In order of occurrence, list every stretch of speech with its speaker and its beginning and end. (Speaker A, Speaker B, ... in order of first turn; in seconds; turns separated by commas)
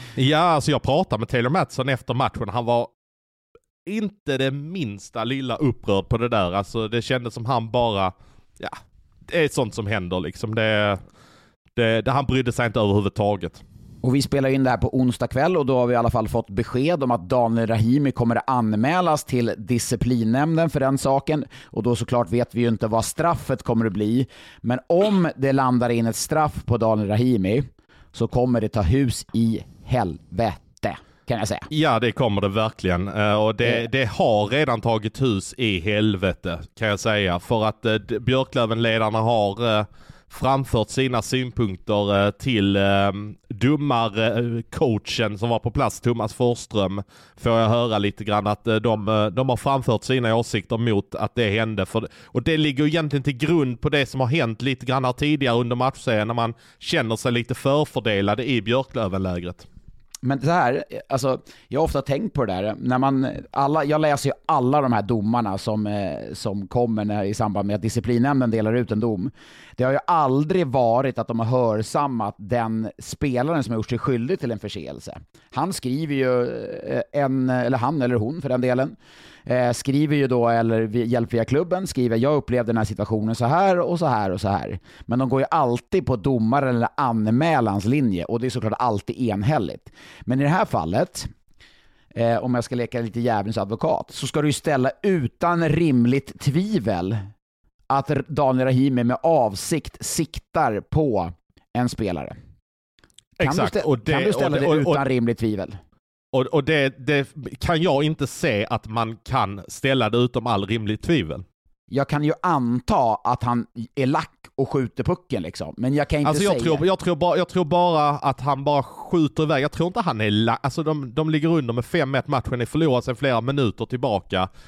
Speaker A: 0.2-2.9, Speaker A: 3.9-11.0, Speaker A: 11.8-13.6, Speaker B: 14.0-31.7, Speaker A: 31.7-59.7, Speaker B: 60.2-79.0, Speaker B: 79.5-91.3, Speaker B: 92.2-97.2, Speaker B: 97.9-102.3, Speaker A: 103.4-105.0, Speaker B: 103.4-105.8, Speaker A: 106.3-111.5, Speaker B: 111.9-116.8, Speaker A: 116.2-124.5